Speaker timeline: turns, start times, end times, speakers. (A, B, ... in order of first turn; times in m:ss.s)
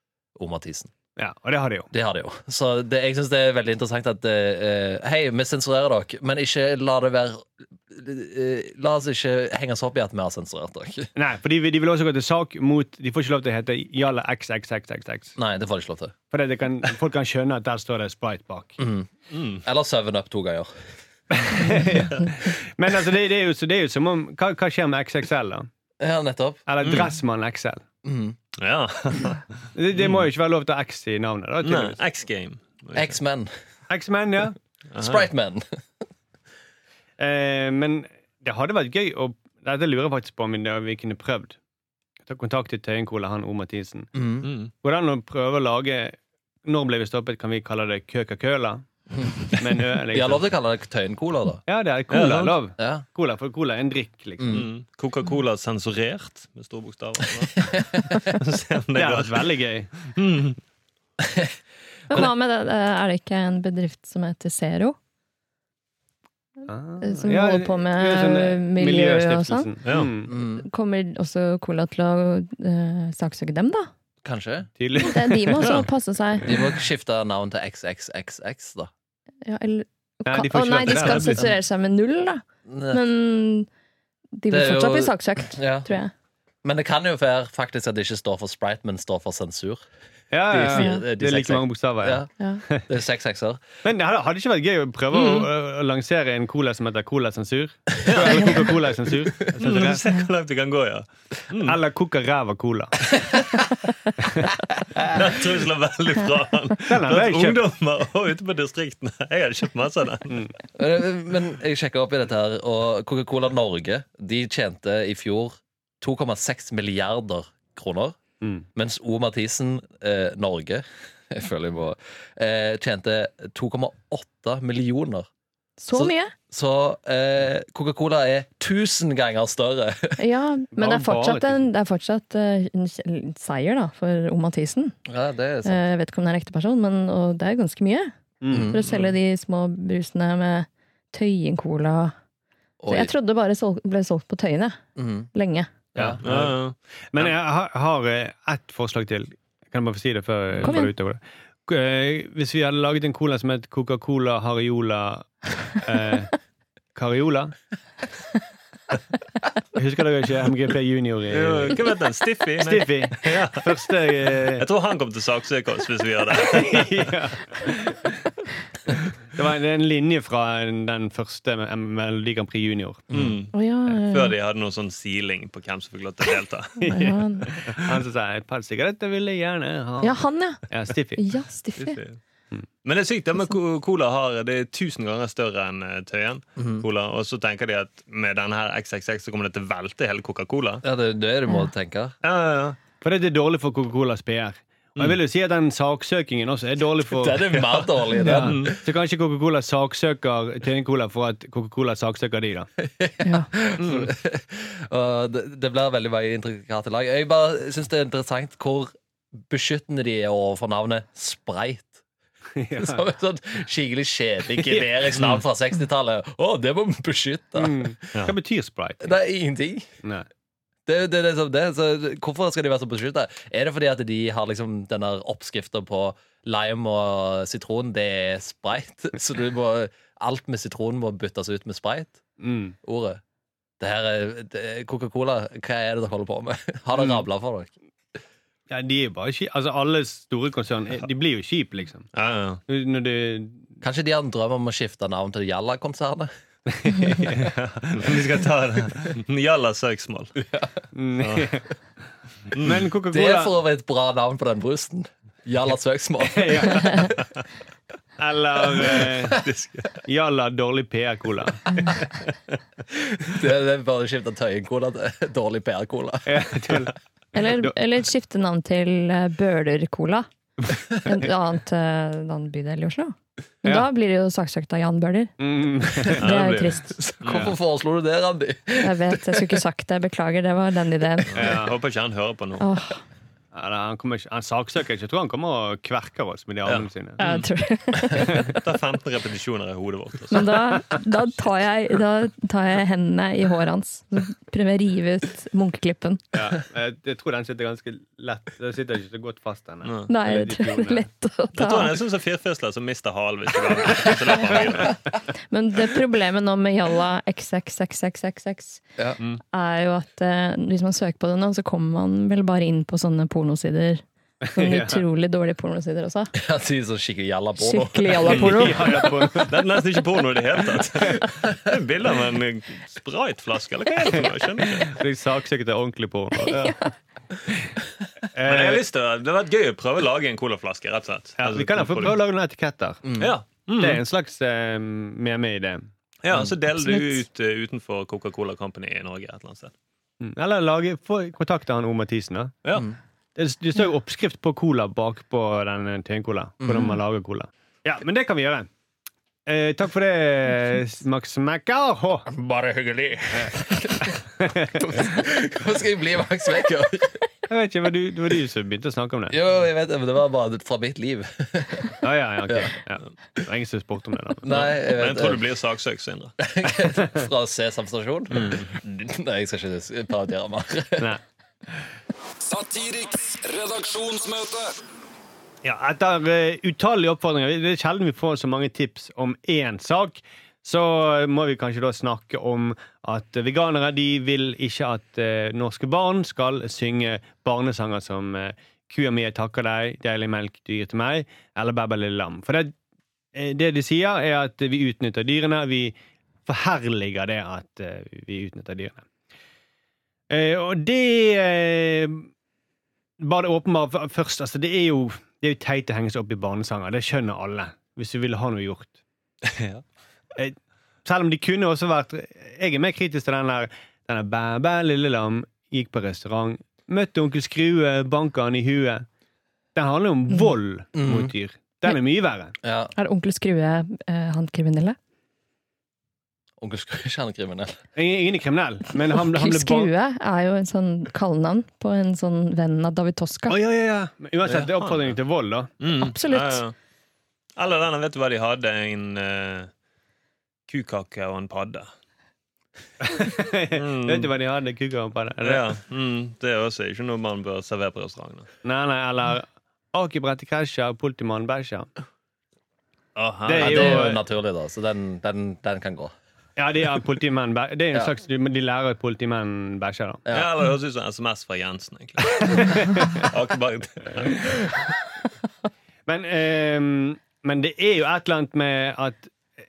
0:00.3-0:00.9 A
0:01.2-0:01.9 B
0:01.9-0:11.1 A
0:11.2-0:15.3 B
0:15.4-0:16.1 A
0:16.3-0:18.8 B
0:18.8-0:19.1 A
0:19.3-0:19.6 C
0:19.6-0:20.7 A
0:21.3-0:25.7 B
0:26.0-0:27.0 A
0:26.7-0:27.8 B
0:26.8-0:27.1 C
0:28.0-0:28.4 A
0:28.6-0:30.3 C
0:29.7-0:32.0 B
0:31.6-0:33.1 C
0:32.9-0:33.5 A
0:33.9-0:34.6 B
0:34.9-0:35.3 C
0:35.0-0:35.6 A
0:37.2-0:41.6 B
0:42.3-0:44.1 B
0:44.1-0:44.5 A
0:44.4-0:44.7 C
0:44.8-0:48.8 B
0:49.2-0:51.6 A
0:49.5-0:50.4 B
0:51.7-0:54.5 B
0:52.1-0:52.6 C
0:52.8-0:53.0 A
0:54.4-0:54.7 A
0:54.5-1:00.6 C
0:57.6-0:58.1 A
0:59.0-0:59.9 B
1:01.2-1:01.5 A
1:02.1-1:05.0 D
1:06.7-1:10.3 B
1:07.0-1:09.7 D
1:09.8-1:10.1 C
1:10.2-1:10.6 A
1:10.6-1:13.9 D
1:14.2-1:14.7 A
1:14.8-1:15.7 B
1:15.0-1:16.5 D
1:15.6-1:15.8 C
1:16.4-1:18.9 A
1:19.4-1:23.7 D
1:20.3-1:21.4 B
1:20.9-1:21.3 C
1:22.7-1:23.0 A
1:24.4-1:26.1 D
1:24.5-1:25.9 A
1:26.6-1:29.8 A
1:30.3-1:32.2 B
1:30.5-1:33.6 A
1:30.7-1:31.0 D
1:33.8-1:40.0 B
1:35.1-1:35.5 C
1:38.0-1:38.8 C
1:39.6-1:41.8 C
1:41.6-1:43.1 B
1:44.2-1:44.5 B
1:45.0-1:50.4 C
1:46.9-1:47.6 B
1:50.8-1:58.2 A
1:58.7-2:05.3 A
2:05.8-2:06.3 D
2:05.9-2:10.2 A
2:10.2-2:15.0 D
2:10.7-2:11.7 B
2:15.0-2:15.8 A
2:15.6-2:18.1 D
2:18.4-2:18.7 B
2:18.5-2:18.8 A
2:18.6-2:22.1 D
2:18.9-2:19.1 C
2:22.8-2:23.1 A
2:22.9-2:24.8 D
2:25.0-2:25.3 A
2:25.3-2:25.7 D
2:25.9-2:26.2 A
2:26.0-2:26.5 B
2:26.0-2:27.3 C
2:27.1-2:36.3 B
2:30.6-2:30.9 D
2:36.9-2:37.5 B
2:39.7-2:41.8 B
2:41.3-2:43.8 C
2:42.6-2:44.6 B
2:44.6-2:47.1 C
2:46.3-2:48.2 B
2:49.3-2:53.0 B
2:53.1-2:53.4 A
2:53.1-2:58.0 C
2:53.5-2:54.3 D
2:56.8-2:57.5 D
2:56.8-3:00.2 B
3:00.0-3:02.0 D
3:00.7-3:01.2 B
3:01.8-3:02.2 C
3:02.8-3:10.8 C
3:06.6-3:06.8 A
3:10.8-3:12.2 A
3:12.2-3:12.8 C
3:13.0-3:22.7 B
3:17.1-3:18.8 A
3:18.2-3:18.7 C
3:22.8-3:28.9 A
3:23.2-3:23.5 D
3:29.4-3:32.0 A
3:32.6-3:33.0 B
3:32.8-3:38.1 A
3:34.6-3:34.9 B
3:35.2-3:35.4 C
3:37.6-3:39.1 B
3:39.0-3:39.9 A
3:40.8-3:52.2 A
3:52.4-3:52.7 B
3:52.8-3:53.2 A
3:53.8-3:57.7 A
3:58.7-4:02.1 B
4:02.1-4:02.6 C
4:02.7-4:03.6 B
4:03.8-4:06.3 A
4:06.7-4:07.5 B
4:07.4-4:10.3 C
4:10.4-4:10.8 A
4:10.9-4:11.6 B
4:11.2-4:11.6 C
4:12.5-4:12.9 C
4:12.6-4:13.5 B
4:13.1-4:17.1 A
4:16.2-4:17.1 B
4:18.2-4:19.4 B
4:18.9-4:20.0 C
4:20.0-4:22.0 B
4:22.9-4:26.8 A
4:26.2-4:27.7 B
4:27.3-4:30.2 D
4:31.0-4:35.3 D
4:35.4-4:36.3 B
4:36.0-4:37.2 D
4:36.2-4:37.5 C
4:37.1-4:39.6 A
4:37.3-4:37.5 B
4:38.8-4:41.3 D
4:41.3-4:42.6 C
4:41.4-4:41.7 B
4:42.6-4:43.0 D
4:43.5-4:47.2 B
4:46.6-4:47.4 C
4:47.2-4:48.4 D
4:48.2-4:51.0 C
4:50.3-4:56.2 D
4:56.3-5:01.1 B
4:59.8-5:00.1 C
5:00.1-5:02.0 D
5:01.5-5:05.0 C
5:05.5-5:08.8 D
5:09.5-5:14.0 D
5:14.5-5:15.0 B
5:14.5-5:16.3 D
5:16.3-5:18.6 A
5:17.6-5:19.1 D
5:18.3-5:18.6 C
5:18.3-5:19.6 B
5:19.4-5:25.0 C
5:24.6-5:26.8 B
5:26.4-5:26.9 D
5:27.5-5:27.8 B
5:28.3-5:28.8 B
5:28.4-5:32.2 C
5:31.4-5:33.0 B
5:33.0-5:33.3 A
5:33.2-5:34.0 C
5:33.8-5:35.8 B
5:36.2-5:39.7 C
5:36.8-5:37.2 D
5:40.2-5:42.6 B
5:43.3-5:48.7 B
5:46.6-5:47.0 A
5:49.4-5:52.3 B
5:52.3-5:54.2 A
5:54.1-5:54.8 B
5:54.7-5:57.3 A
5:57.5-5:59.3 B
5:59.3-6:02.7 A
6:02.0-6:04.4 B
6:04.4-6:05.4 A
6:04.5-6:06.3 C
6:06.4-6:11.2 A
6:08.3-6:08.7 C
6:12.4-6:14.7 E
6:15.6-6:32.7 B
6:33.3-6:35.9 B
6:36.4-6:39.0 B
6:40.3-6:42.3 B
6:43.2-6:49.0 B
6:49.4-6:49.8 C
6:50.4-6:59.0 B
6:59.7-7:02.5 B
7:00.9-7:01.3 A
7:02.6-7:02.9 A
7:03.0-7:05.0 D
7:06.6-7:07.8 A
7:08.0-7:09.9 B
7:09.2-7:13.6 D
7:13.5-7:15.7 B
7:14.4-7:15.1 C
7:15.8-7:16.7 C
7:15.9-7:16.6 D
7:17.6-7:19.7 C
7:20.7-7:21.9 C
7:23.0-7:25.6 B
7:23.7-7:24.3 C
7:25.4-7:28.5 C
7:28.6-7:31.9 B
7:33.2-7:34.1 C
7:33.4-7:34.2 B
7:33.6-7:36.1 A
7:36.6-7:40.2 B
7:40.3-7:44.9 C
7:42.4-7:43.2 B
7:46.0-7:49.3 B